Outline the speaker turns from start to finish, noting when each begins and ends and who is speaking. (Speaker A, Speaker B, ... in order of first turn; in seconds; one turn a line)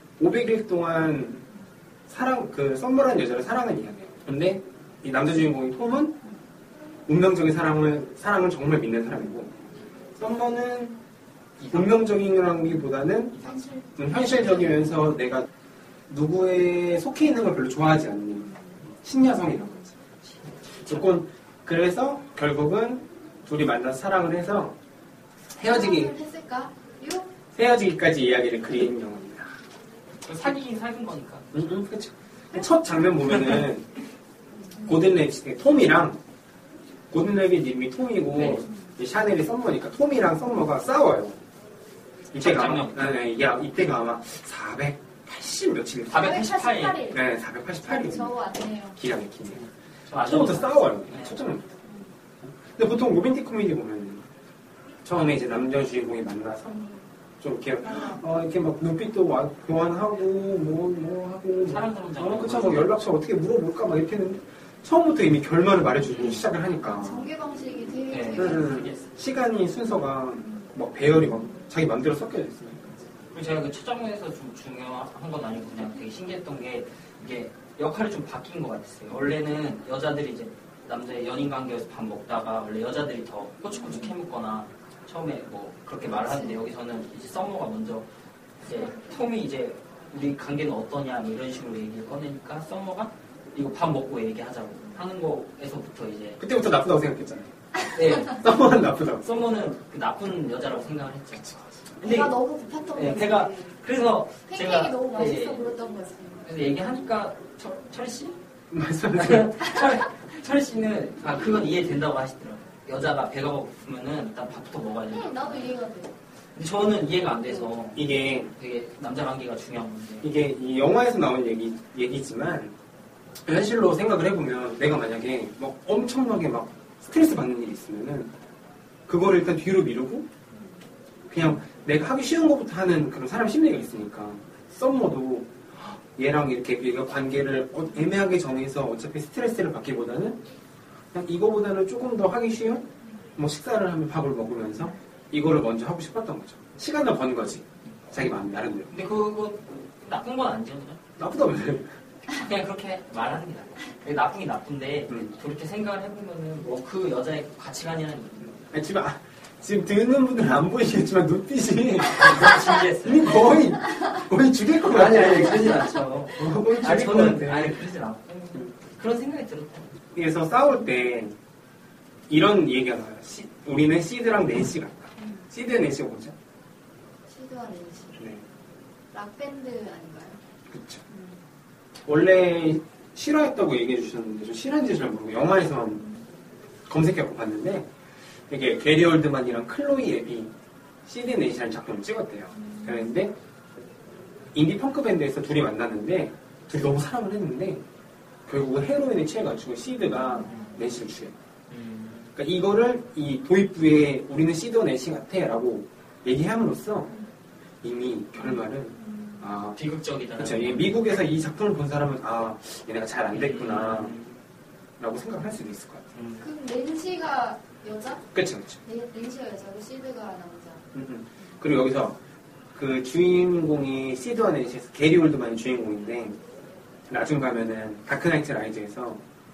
Speaker A: 0.2-1.4
Speaker A: 2.1-6.2
Speaker A: 7.1-9.6
Speaker A: 10.2-11.0
Speaker B: 11.6-12.1
Speaker A: 11.7-13.4
Speaker B: 13.3-13.7
Speaker C: 13.4-15.0
Speaker A: 14.0-15.5
Speaker A: 16.1-19.9
Speaker A: 20.8-24.8
Speaker B: 20.8-21.1
Speaker A: 25.6-26.1
Speaker C: 25.6-27.3
Speaker A: 27.5-29.5
Speaker B: 30.2-31.5
Speaker A: 31.5-33.9
Speaker C: 34.5-34.9
Speaker A: 34.9-36.2
Speaker A: 37.1-41.4
Speaker B: 38.4-38.6
Speaker A: 42.3-46.5
Speaker B: 42.4-43.3
Speaker B: 46.1-47.0
Speaker C: 46.1-47.3
Speaker A: 47.1-48.4
Speaker C: 47.8-49.0
Speaker A: 49.0-49.6
Speaker B: 49.5-51.4
Speaker A: 50.2-51.7
Speaker C: 51.8-52.1
Speaker A: 52.4-54.3
Speaker A: 55.0-56.8
Speaker C: 56.7-57.1
Speaker A: 57.4-67.3
Speaker C: 57.9-58.2
Speaker B: 61.6-63.0
Speaker C: 66.2-68.9
Speaker B: 68.1-69.1
Speaker A: 68.4-73.0
Speaker B: 73.3-88.1
Speaker C: 83.8-84.1
Speaker C: 86.1-86.6
Speaker B: 88.6-96.4
Speaker A: 96.4-99.3
Speaker B: 97.9-98.4
Speaker B: 99.2-102.4
Speaker C: 102.0-103.8
Speaker B: 103.0-105.7
Speaker C: 104.5-106.5
Speaker B: 106.4-108.4
Speaker A: 108.7-109.5
Speaker B: 109.1-115.7
Speaker C: 115.1-116.1
Speaker B: 116.6-120.3
Speaker A: 118.0-118.5
Speaker A: 120.2-122.7
Speaker A: 123.5-128.3
Speaker A: 129.1-130.3
Speaker A: 131.3-140.4
Speaker A: 141.1-148.9
Speaker B: 148.9-151.0
Speaker A: 151.2-151.9
Speaker B: 152.3-158.6
Speaker A: 158.7-165.8
Speaker B: 162.1-163.4
Speaker B: 164.9-169.9
Speaker A: 166.3-167.8
Speaker A: 170.1-171.3
Speaker A: 172.3-176.3
Speaker C: 175.2-175.5
Speaker C: 177.3-178.3
Speaker A: 178.2-178.4
Speaker C: 179.1-180.4
Speaker A: 180.7-181.0
Speaker C: 181.1-181.4
Speaker A: 182.1-186.1
Speaker A: 186.9-187.9
Speaker A: 188.5-190.5
Speaker A: 191.1-193.3
Speaker C: 192.5-193.1
Speaker A: 194.5-197.8
Speaker A: 198.5-201.3
Speaker C: 200.2-200.8
Speaker B: 201.7-202.3
Speaker A: 202.4-207.1
Speaker A: 207.8-209.8
Speaker C: 208.4-209.5
Speaker B: 209.8-211.0
Speaker A: 210.4-214.2
Speaker B: 213.3-214.4
Speaker A: 215.0-216.1
Speaker B: 216.2-216.4
Speaker C: 216.4-218.3
Speaker A: 218.3-218.8
Speaker C: 218.8-220.9
Speaker A: 220.9-222.2
Speaker A: 222.7-226.4
Speaker A: 227.1-229.2